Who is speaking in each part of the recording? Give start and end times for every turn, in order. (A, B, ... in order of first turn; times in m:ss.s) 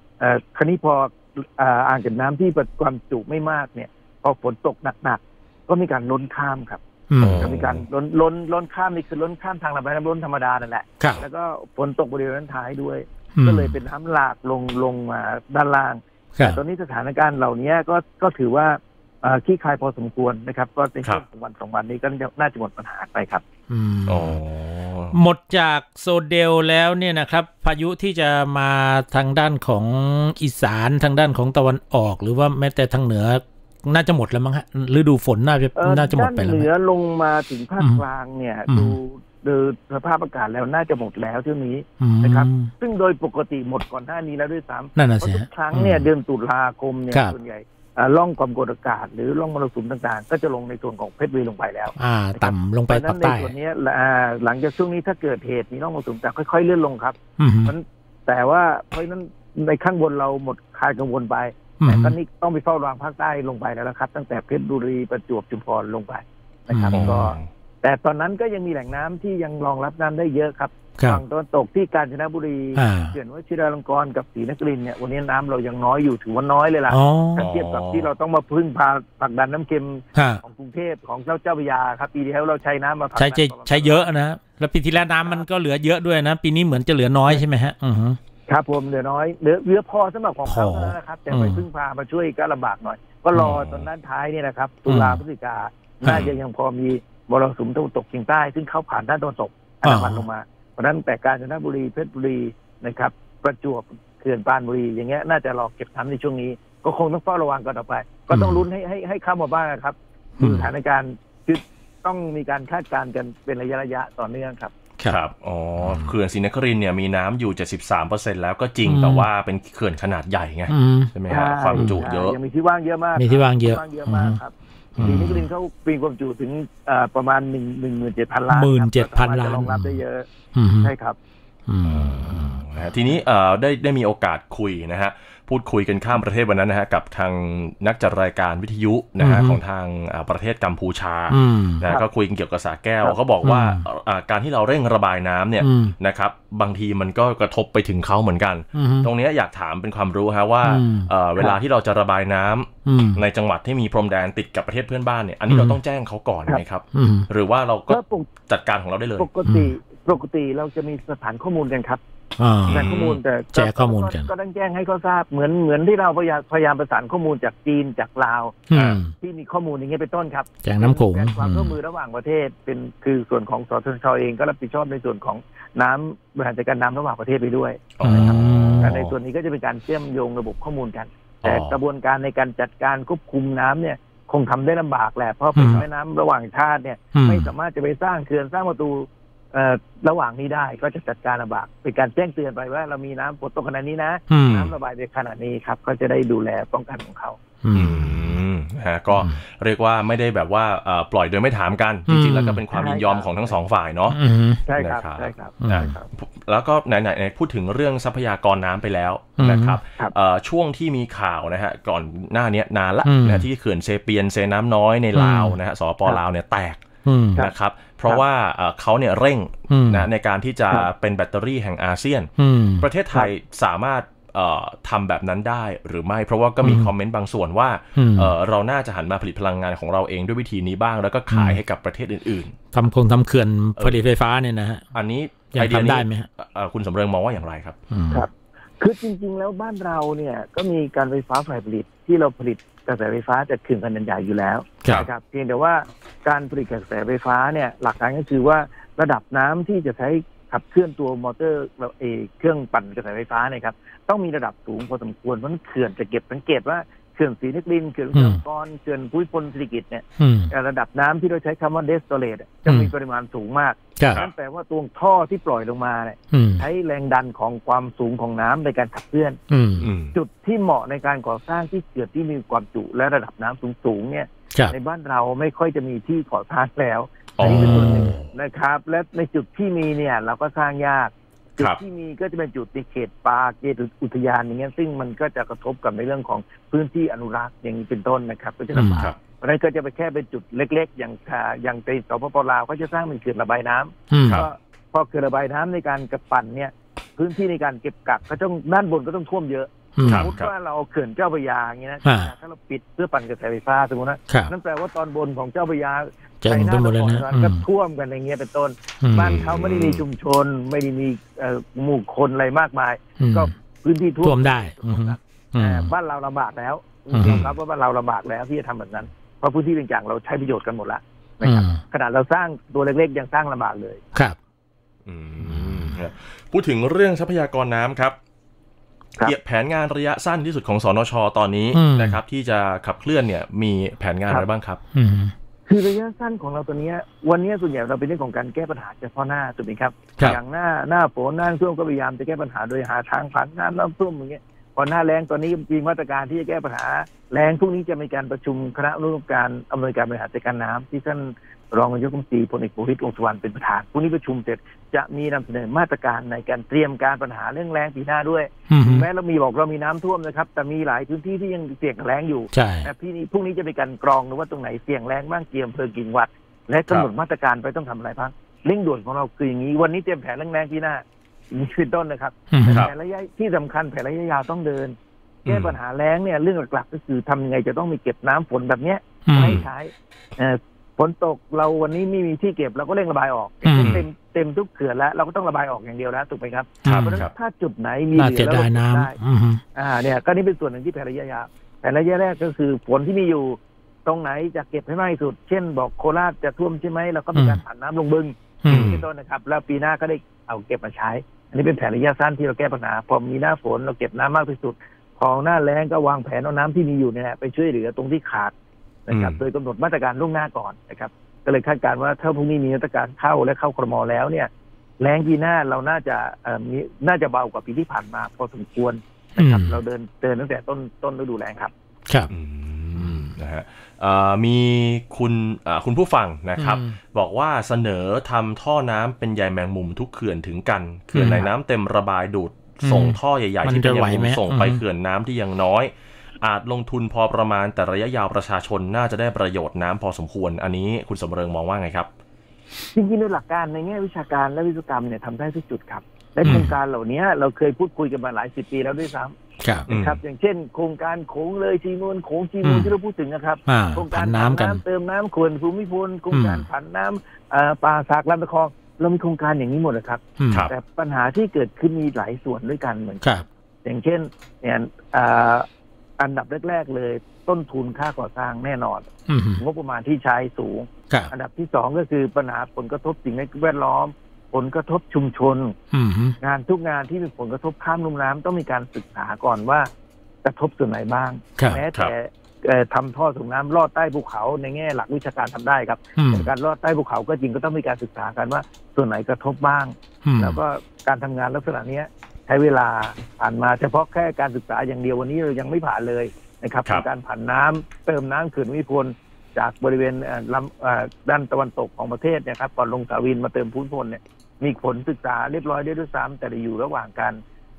0:00.2-0:23.4 A
0:07.1-0:07.5 B
0:07.2-0:07.8 C
0:13.4-0:13.7 B
0:16.3-0:16.6 B
0:23.7-0:24.4 B
0:24.1-0:25.2 C
0:25.1-0:36.7 B
0:35.8-1:24.1 A
0:37.8-0:38.0 B
0:38.7-0:39.0 B
0:42.0-0:42.7 B
0:45.0-0:46.1 B
0:52.0-0:53.5 B
0:57.4-0:57.7 B
1:01.8-1:02.2 B
1:06.7-1:07.2 B
1:06.9-1:07.5 C
1:12.7-1:13.1 B
1:16.9-1:17.4 B
1:17.4-1:18.1 C
1:20.1-1:20.4 B
1:23.1-1:28.2 B
1:28.5-1:54.7 A
1:30.4-1:31.6 B
1:33.3-1:33.6 B
1:33.4-1:33.9 C
1:34.9-1:35.2 B
1:36.0-1:36.4 C
1:39.8-1:40.2 B
1:48.3-1:48.6 B
1:50.4-1:50.7 B
1:55.0-2:02.4 C
1:55.8-1:56.1 B
1:58.8-1:59.3 B
2:00.7-2:01.1 B
2:01.3-2:10.3 A
2:01.7-2:02.0 B
2:03.2-2:04.4 B
2:05.0-2:05.5 B
2:08.5-2:10.0 B
2:10.5-2:10.9 B
2:10.8-2:11.2 A
2:11.7-2:12.6 B
2:11.8-2:39.3 C
2:19.2-2:19.6 B
2:21.3-2:21.8 B
2:23.4-2:23.8 B
2:25.6-2:25.9 B
2:28.7-2:29.1 B
2:30.6-2:31.1 B
2:32.8-2:33.2 B
2:35.5-2:35.8 B
2:36.9-2:37.3 B
2:37.9-2:38.3 A
2:39.2-2:42.0 A
2:39.4-2:39.7 B
2:42.4-2:42.9 B
2:42.7-2:43.2 C
2:42.7-3:17.4 A
2:43.5-2:44.3 B
2:48.7-2:49.1 B
2:48.7-2:49.0 C
2:50.6-2:51.8 B
2:58.0-2:59.1 C
2:58.0-2:58.9 B
3:01.4-3:01.8 C
3:05.5-3:05.8 B
3:07.1-3:07.5 B
3:14.3-3:14.7 B
3:17.6-3:18.3 B
3:17.7-3:24.2 C
3:19.1-3:19.4 B
3:22.1-3:22.6 B
3:22.7-3:23.6 A
3:24.1-3:24.6 B
3:24.7-3:26.1 A
3:24.8-3:36.8 C
3:25.6-3:25.9 B
3:29.4-3:29.8 B
3:33.0-3:33.4 B
3:35.1-3:35.6 B
3:37.0-3:37.4 B
3:37.4-3:52.5 C
3:39.7-3:40.1 B
3:42.4-3:42.9 B
3:46.6-3:46.9 B
3:48.0-3:48.3 B
3:51.3-3:51.6 B
3:52.7-3:54.8 B
3:54.9-3:57.7 C
3:55.5-3:56.3 B
3:57.9-3:58.3 B
3:58.1-4:29.4 A
4:18.1-4:18.4 B
4:20.2-4:20.5 B
4:22.6-4:22.9 B
4:26.3-4:26.6 B
4:29.5-4:29.9 B
4:29.8-4:30.1 C
4:30.1-5:24.0 A
4:37.4-4:38.3 C
4:37.4-4:38.1 B
4:48.7-4:49.1 B
4:54.1-4:54.4 B
5:00.0-5:00.3 B
5:00.0-5:00.5 C
5:02.0-5:02.3 B
5:06.4-5:07.6 B
5:09.0-5:09.4 B
5:09.2-5:10.0 C
5:13.2-5:13.5 B
5:14.2-5:15.9 B
5:17.1-5:17.5 B
5:17.2-5:17.5 C
5:21.4-5:21.8 B
5:25.0-5:28.2 C
5:25.6-5:25.9 B
5:29.2-5:34.8 C
5:31.7-5:32.2 B
5:34.9-5:35.3 B
5:35.6-6:15.0 A
5:58.7-5:59.1 B
6:02.5-6:02.9 B
6:12.5-6:12.9 B
6:12.7-6:12.9 C
6:15.4-6:15.7 C
6:15.5-6:29.2 A
6:19.2-6:19.6 B
6:19.4-6:19.6 C
6:23.6-6:24.0 B
6:23.8-6:24.1 C
6:26.8-6:27.2 B
6:26.8-6:27.3 C
6:28.1-6:29.6 B
6:29.7-6:48.5 A
6:37.3-6:37.6 B
6:38.6-6:38.9 B
6:38.7-6:39.0 C
6:49.1-7:01.7 A
6:49.1-6:49.4 C
6:59.4-6:59.8 B
7:02.3-7:22.1 C
7:06.6-7:06.9 B
7:11.1-7:11.5 B
7:12.8-7:14.8 B
7:22.9-7:29.4 A
7:26.4-7:26.7 B
7:29.6-7:29.9 B
7:29.9-7:30.2 C
7:29.9-7:43.3 A
7:32.6-7:32.9 B
7:33.7-7:34.8 B
7:36.3-7:36.6 B
7:40.4-7:40.7 B
7:43.8-7:45.7 A
7:46.2-7:49.0 A
7:49.3-7:49.6 B
7:49.6-7:55.8 A
7:55.9-7:56.4 B
7:56.4-7:59.9 A
8:00.4-8:27.4 A
8:01.6-8:01.8 B
8:06.2-8:06.5 B
8:10.2-8:10.6 B